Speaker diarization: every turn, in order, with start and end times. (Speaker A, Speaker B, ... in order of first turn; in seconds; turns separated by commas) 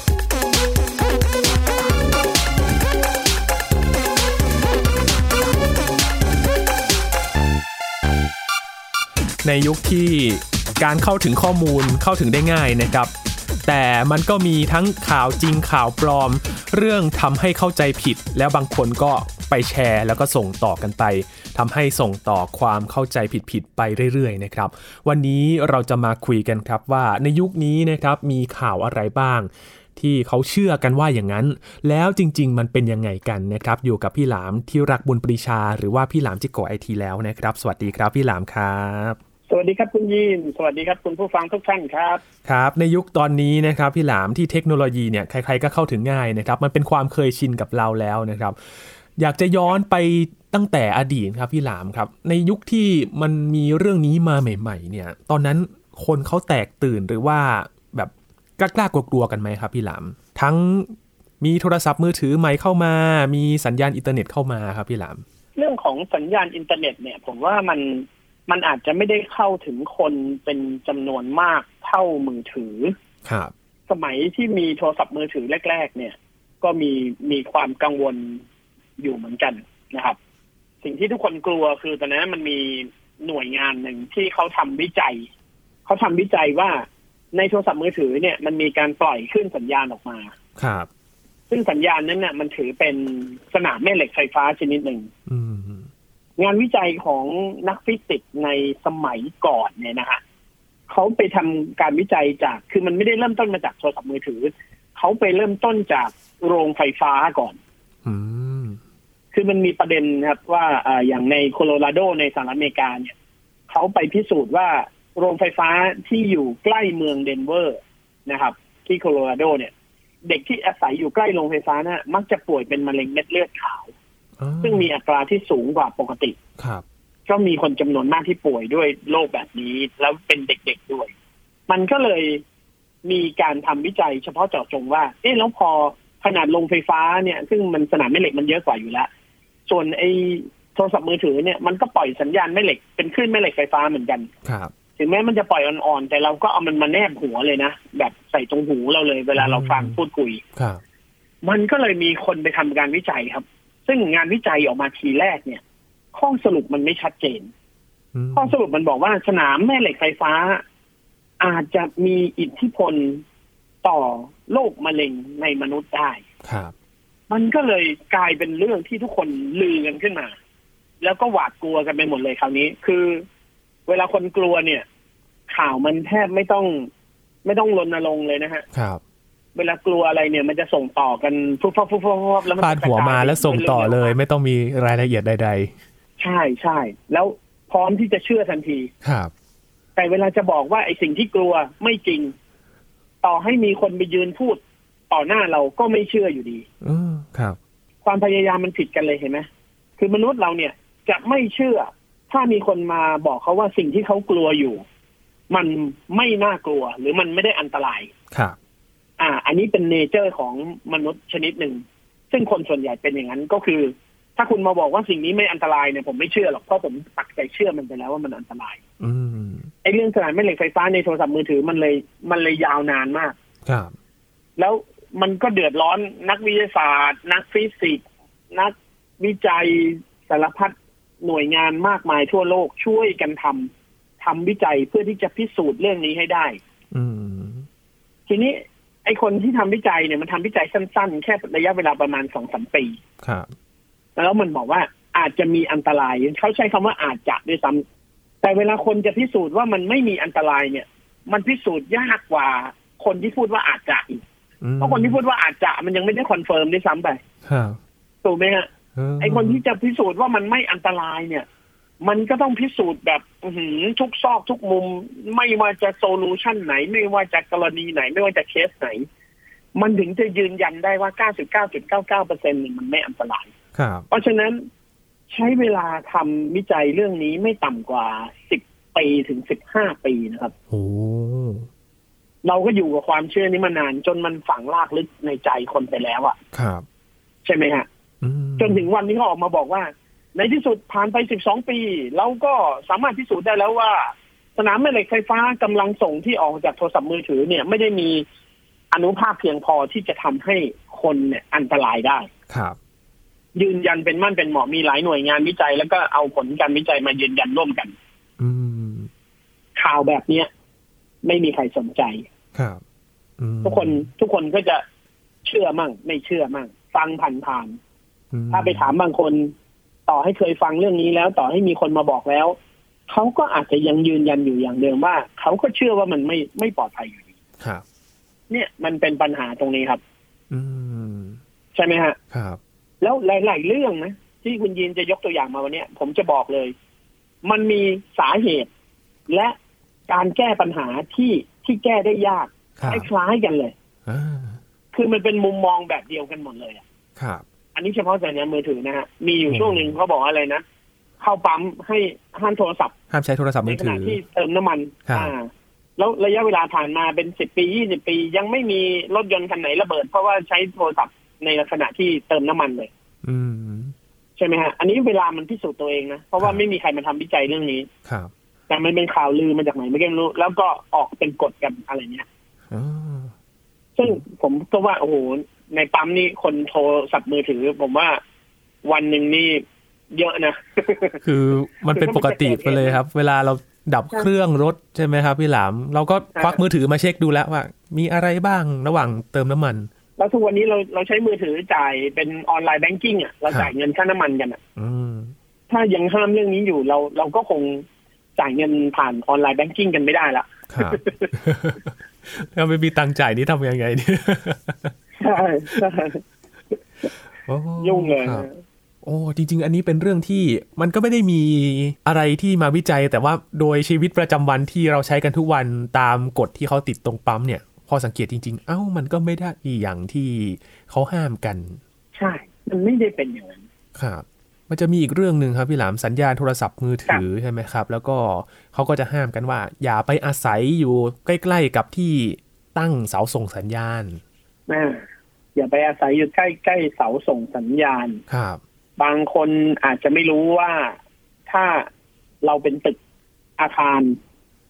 Speaker A: 9.4-13.1, Speaker A: 13.7-39.2, Speaker B: 39.5-42.2, Speaker A: 42.4-48.6, Speaker A: 49.2-65.2, Speaker B: 65.6-73.0, Speaker A: 73.2-73.5, Speaker B: 73.9-78.4, Speaker B: 79.0-80.2, Speaker B: 80.8-85.3, Speaker B: 85.9-90.3, Speaker A: 90.6-90.9, Speaker B: 91.5-95.1, Speaker A: 95.3-95.9, Speaker B: 96.4-100.2, Speaker B: 100.9-107.6, Speaker A: 108.0-108.8, Speaker B: 109.3-113.1, Speaker B: 113.7-119.7, Speaker B: 120.2-123.9, Speaker A: 124.4-124.9, Speaker B: 124.6-126.4, Speaker A: 126.6-126.8, Speaker B: 127.3-131.1, Speaker B: 131.7-132.4, Speaker B: 133.0-139.1, Speaker B: 139.7-144.3, Speaker A: 144.4-144.7, Speaker B: 145.0-150.4, Speaker A: 149.4-150.0, Speaker A: 150.6-150.8, Speaker B: 151.4-155.6, Speaker B: 156.1-157.5, Speaker A: 158.2-158.6, Speaker B: 158.3-160.6, Speaker B: 161.4-163.2, Speaker B: 163.8-166.2, Speaker A: 166.4-166.7, Speaker B: 167.3-170.3, Speaker B: 171.0-173.2, Speaker B: 173.9-174.8, Speaker B: 175.5-176.9, Speaker B: 177.4-178.7, Speaker A: 178.7-179.0, Speaker B: 179.6-184.1, Speaker A: 182.6-185.8, Speaker B: 186.2-188.9, Speaker A: 189.0-189.3, Speaker B: 190.0-192.3, Speaker B: 193.2-196.7, Speaker A: 196.8-197.6, Speaker B: 198.1-199.5, Speaker B: 200.0-204.8, Speaker B: 205.5-208.1, Speaker A: 208.3-208.6, Speaker B: 209.2-218.8, Speaker A: 219.0-219.7, Speaker B: 219.8-223.3, Speaker A: 223.7-223.9, Speaker B: 224.6-236.6, Speaker A: 236.9-237.7, Speaker B: 238.3-243.0, Speaker A: 243.2-243.5, Speaker B: 244.2-247.8, Speaker B: 248.4-254.2, Speaker A: 254.6-255.2, Speaker B: 254.8-257.2, Speaker A: 257.4-257.8, Speaker B: 258.2-258.7, Speaker A: 259.0-259.6, Speaker B: 259.2-261.5, Speaker B: 262.0-269.1, Speaker B: 269.8-273.5, Speaker A: 273.8-274.1, Speaker B: 274.1-274.6, Speaker B: 275.3-280.5, Speaker A: 280.7-281.7, Speaker B: 282.4-286.4, Speaker A: 286.5-286.9, Speaker B: 287.4-287.9, Speaker A: 288.2-288.9, Speaker B: 288.6-298.2, Speaker B: 298.9-302.3, Speaker A: 302.5-302.8, Speaker B: 303.6-307.9, Speaker A: 308.4-309.1, Speaker B: 309.8-310.5, Speaker B: 311.2-312.3, Speaker A: 312.5-312.8, Speaker A: 313.4-314.1, Speaker B: 313.6-314.8, Speaker B: 315.4-317.8, Speaker A: 318.3-318.9, Speaker B: 318.5-319.5, Speaker B: 320.1-322.6, Speaker B: 323.1-327.3, Speaker B: 328.5-330.0, Speaker A: 330.5-331.4, Speaker B: 331.8-332.2, Speaker A: 332.3-332.6, Speaker B: 333.0-336.7, Speaker B: 337.4-338.7, Speaker B: 339.3-339.6, Speaker B: 340.1-343.7, Speaker A: 342.8-343.1, Speaker A: 344.1-344.6, Speaker B: 344.9-346.8, Speaker A: 347.2-347.4, Speaker B: 347.8-350.6, Speaker A: 349.5-349.9, Speaker B: 351.2-352.9, Speaker A: 353.1-354.2, Speaker B: 353.6-362.9, Speaker A: 355.1-355.3, Speaker A: 363.2-363.9, Speaker B: 364.4-367.9, Speaker A: 368.1-368.3, Speaker B: 368.7-372.3, Speaker A: 372.7-373.3, Speaker B: 374.0-378.2, Speaker B: 378.9-381.2, Speaker A: 381.2-389.9, Speaker B: 381.9-383.0, Speaker B: 386.4-386.6, Speaker B: 390.2-394.6, Speaker A: 394.8-395.3, Speaker B: 395.7-397.9, Speaker B: 398.4-401.3, Speaker A: 400.7-404.9, Speaker B: 405.2-406.2, Speaker A: 407.4-408.5, Speaker B: 407.8-408.6, Speaker A: 409.0-421.8, Speaker B: 422.1-423.6, Speaker A: 423.9-434.2, Speaker B: 434.7-438.2, Speaker A: 438.3-438.6, Speaker B: 439.0-441.9, Speaker B: 442.4-443.0, Speaker B: 443.6-444.2